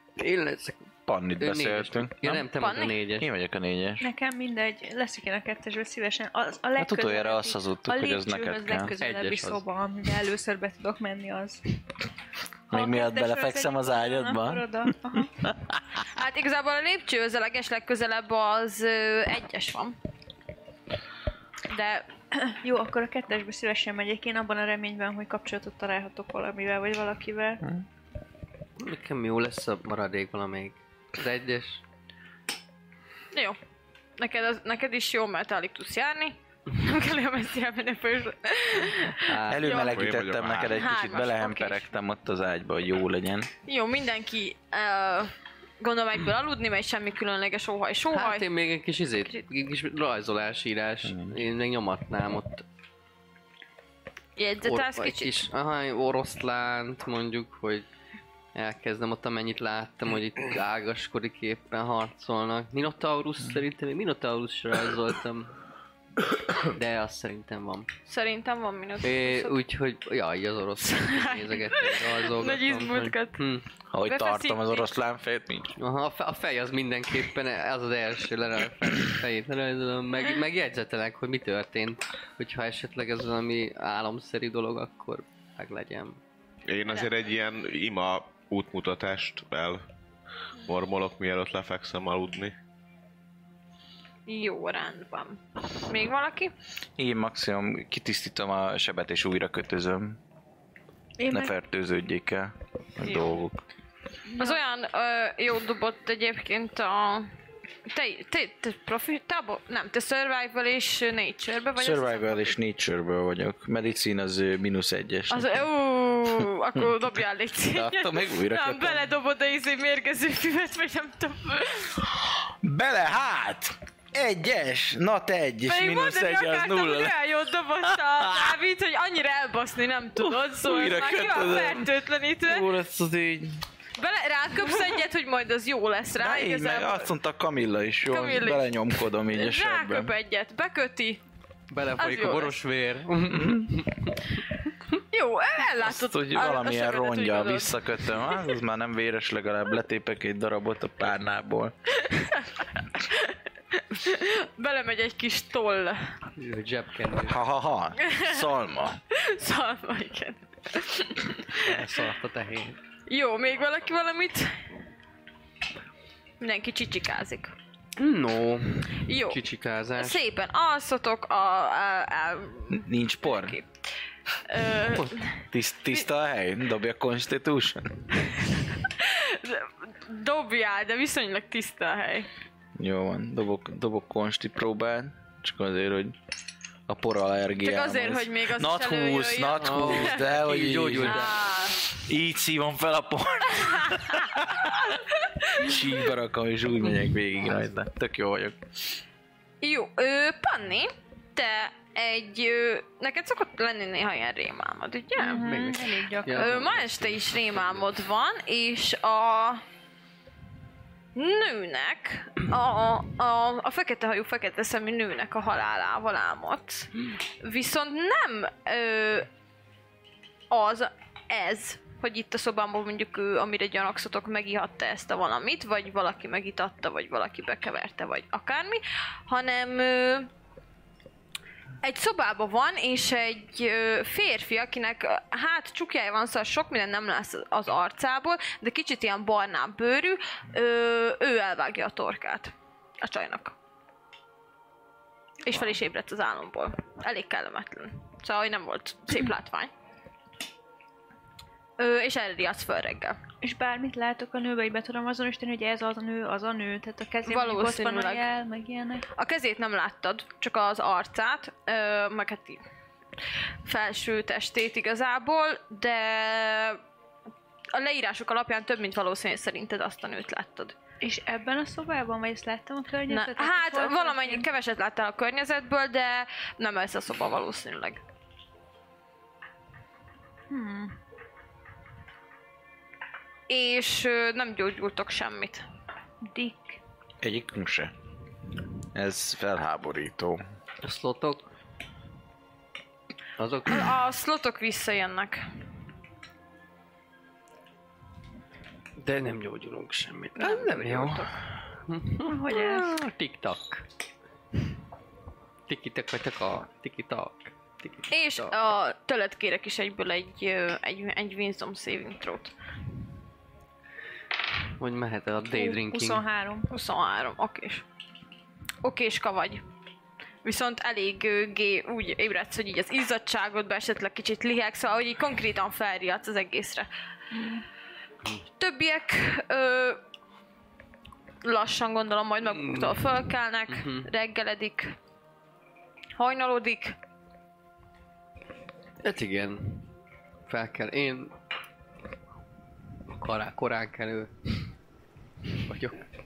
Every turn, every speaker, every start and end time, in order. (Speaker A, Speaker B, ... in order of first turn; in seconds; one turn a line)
Speaker A: 0.2-3.3
Speaker B: 1.1-2.5
Speaker C: 2.5-2.9
Speaker B: 3.2-4.1
Speaker D: 4.0-11.6
Speaker B: 6.8-8.9
Speaker A: 9.0-9.6
Speaker B: 12.7-15.8
Speaker D: 12.7-15.3
Speaker C: 16.1-19.9
Speaker C: 21.7-22.1
Speaker D: 22.4-27.6
Speaker A: 28.8-31.8
Speaker C: 33.3-33.6
Speaker C: 34.2-40.0
Speaker A: 39.2-39.8
Speaker B: 39.4-43.5
Speaker E: 39.8-40.8
Speaker C: 40.7-41.9
Speaker C: 43.7-48.5
Speaker A: 48.1-52.6
Speaker B: 51.0-51.4
Speaker C: 54.4-55.5
Speaker A: 54.6-57.9
Speaker A: 58.5-65.5
Speaker A: 66.6-67.9
Speaker C: 68.1-69.6
Speaker A: 69.0-73.7
Speaker C: 70.8-73.4
Speaker B: 73.9-75.7
Speaker C: 74.0-74.9
Speaker A: 75.8-86.2
Speaker E: 86.7-89.8
Speaker E: 90.6-92.5
Speaker C: 94.3-96.5
Speaker B: 97.0-100.2
Speaker D: 101.2-101.5
Speaker B: 101.3-103.6
Speaker D: 104.3-104.6
Speaker C: 104.4-107.3
Speaker C: 107.9-112.5
Speaker B: 111.8-115.7
Speaker C: 115.3-122.0
Speaker B: 117.7-119.1
Speaker B: 122.6-127.1
Speaker C: 125.6-132.7
Speaker B: 127.8-128.6
Speaker B: 130.2-133.6
Speaker C: 134.0-137.1
Speaker B: 136.2-140.1
Speaker C: 138.1-138.7
Speaker C: 139.3-141.2
Speaker A: 141.7-144.4
Speaker C: 141.9-142.5
Speaker B: 143.3-143.8
Speaker C: 145.1-148.5
Speaker B: 145.8-151.7
Speaker C: 151.9-156.1
Speaker A: 156.4-157.4
Speaker B: 157.2-159.0
Speaker C: 158.0-158.4
Speaker C: 159.1-161.7
Speaker A: 161.6-162.8
Speaker C: 163.1-164.6
Speaker C: 166.4-167.5
Speaker A: 168.0-170.2
Speaker C: 169.0-169.4
Speaker C: 170.0-173.7
Speaker B: 172.7-173.6
Speaker C: 174.4-176.0
Speaker B: 175.5-178.1
Speaker C: 178.6-182.3
Speaker B: 182.8-186.2
Speaker B: 186.9-191.2
Speaker C: 187.6-190.3
Speaker A: 189.6-191.4
Speaker C: 191.0-191.8
Speaker B: 192.1-194.7
Speaker C: 193.7-195.8
Speaker B: 195.6-198.6
Speaker C: 199.6-205.5
Speaker D: 205.2-206.5
Speaker A: 205.3-207.8
Speaker C: 206.3-209.6
Speaker C: 211.1-219.3
Speaker C: 220.5-230.3
Speaker C: 231.8-243.5
Speaker C: 245.4-249.7
Speaker C: 251.8-253.2
Speaker D: 253.4-259.1
Speaker C: 257.2-258.2
Speaker C: 259.1-262.6
Speaker C: 263.6-266.8
Speaker C: 267.7-270.7
Speaker D: 271.0-274.5
Speaker C: 273.1-278.0
Speaker D: 280.5-281.0
Speaker C: 283.5-285.6
Speaker D: 286.2-286.8
Speaker B: 287.2-287.9
Speaker B: 288.9-290.4
Speaker A: 290.8-291.5
Speaker A: 293.4-293.9
Speaker C: 293.7-295.4
Speaker A: 299.0-303.9
Speaker C: 300.4-301.2
Speaker B: 300.4-301.2
Speaker D: 302.2-302.9
Speaker A: 305.7-308.5
Speaker C: 308.1-312.5
Speaker A: 314.8-316.2
Speaker D: 315.5-316.7
Speaker C: 316.7-317.8
Speaker C: 318.8-319.6
Speaker C: 320.4-326.9
Speaker D: 327.3-327.6
Speaker C: 328.6-330.0
Speaker C: 331.4-334.9
Speaker A: 332.4-334.1
Speaker C: 336.1-337.0
Speaker A: 339.0-339.9
Speaker A: 340.5-341.3
Speaker A: 343.1-344.7
Speaker A: 345.6-346.1